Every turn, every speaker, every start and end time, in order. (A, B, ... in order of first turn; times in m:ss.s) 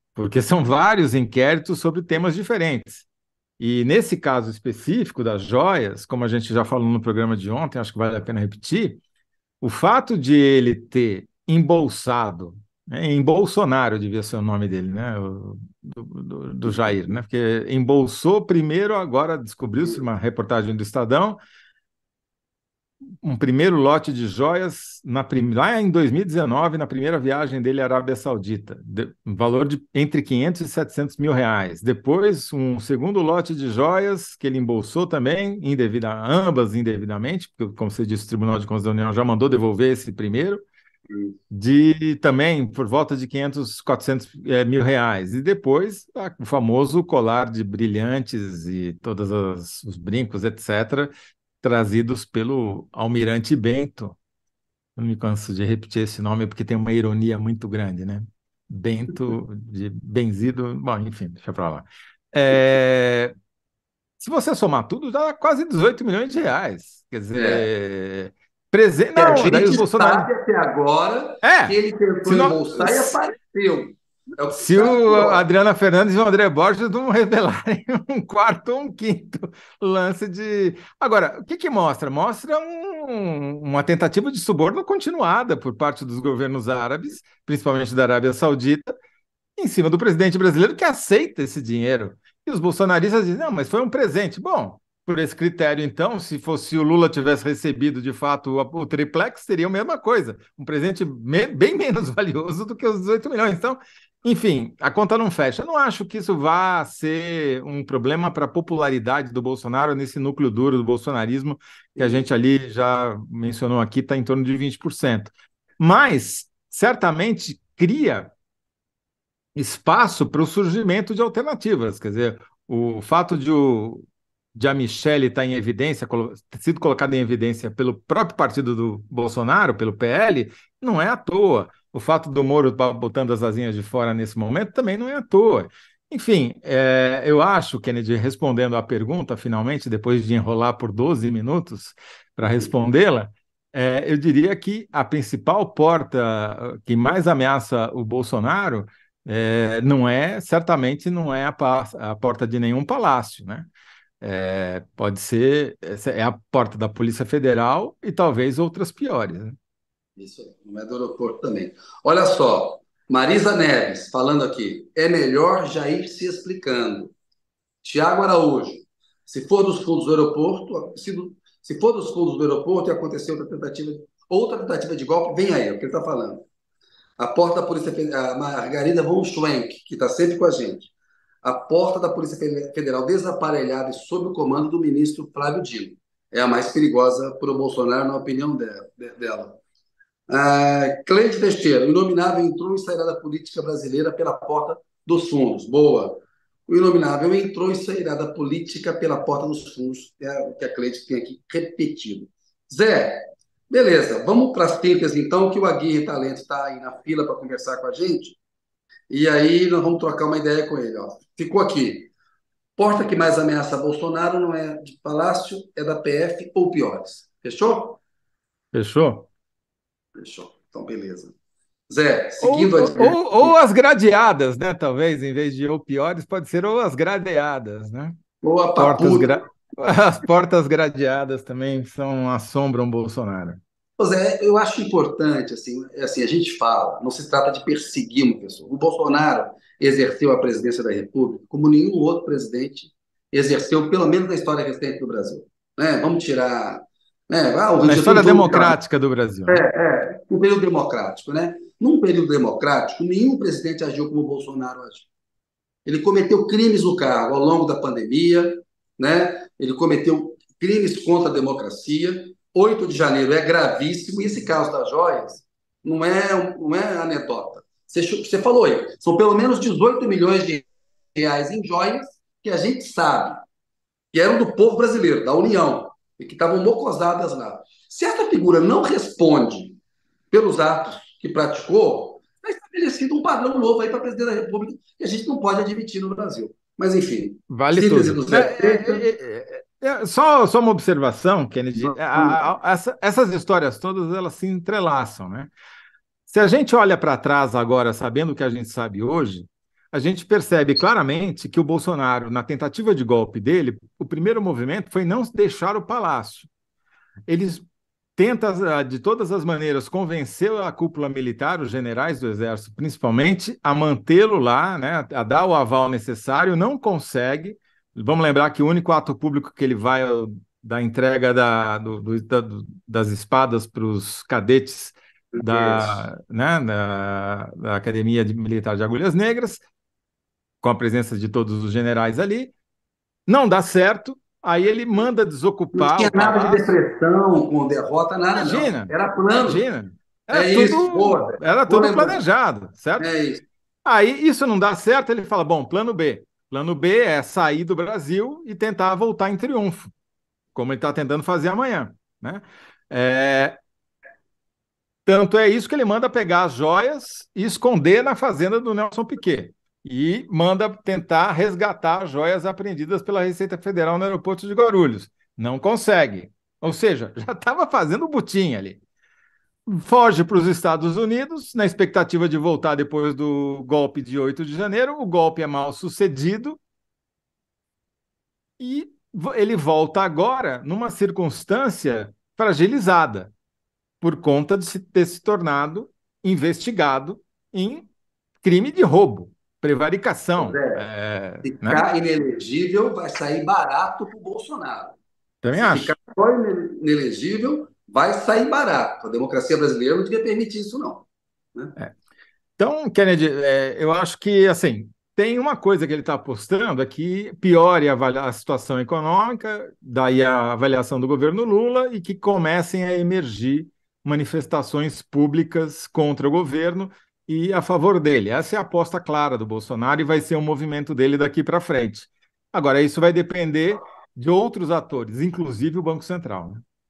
0:00.2-0:03.1 A
0:03.6-0:09.0 A
0:09.6-0:21.4 A
0:16.6-0:17.0 B
0:23.2-0:40.6 A
0:41.1-0:41.4 B
0:41.5-0:54.2 A
0:55.0-1:03.3 A
1:04.2-1:10.3 A
1:07.3-1:07.6 B
1:09.1-1:15.4 B
1:11.4-1:11.7 A
1:12.2-1:13.2 A
1:14.5-1:28.9 A
1:29.6-1:58.3 A
1:51.9-1:52.2 B
1:59.6-2:33.7 A
2:22.4-2:22.7 B
2:34.2-2:39.6 A
2:40.2-2:47.1 B
2:47.8-2:56.4 B
2:57.2-3:00.9 B
3:01.4-3:09.6 B
3:10.3-3:28.4 B
3:29.1-3:32.1 B
3:32.8-3:38.0 B
3:38.7-3:39.3 A
3:40.2-3:41.3 B
3:41.9-3:43.6 B
3:42.4-3:48.2 A
3:48.4-3:49.4 B
3:48.8-3:53.6 A
3:54.0-4:08.8 B
4:07.8-4:09.6 A
4:09.5-4:15.1 B
4:15.8-4:33.4 B
4:34.1-4:39.8 B
4:40.3-4:49.1 B
4:47.5-4:55.5 A
4:51.8-4:52.4 B
4:56.3-5:06.5 A
5:07.3-5:07.6 A
5:08.2-5:29.6 A
5:25.3-5:26.1 B
5:30.6-5:32.5 A
5:33.3-5:36.7 A
5:35.7-5:39.6 B
5:38.3-5:43.1 A
5:40.3-5:42.2 B
5:43.0-5:43.4 B
5:43.8-5:49.9 A
5:50.5-5:53.6 A
5:55.0-6:08.8 A
6:09.7-6:16.6 A
6:18.6-6:23.3 A
6:24.0-6:27.9 A
6:28.4-6:31.8 A
6:30.4-6:30.8 B
6:31.4-6:35.0 B
6:35.4-6:35.9 A
6:35.5-6:41.8 B
6:42.6-7:06.6 A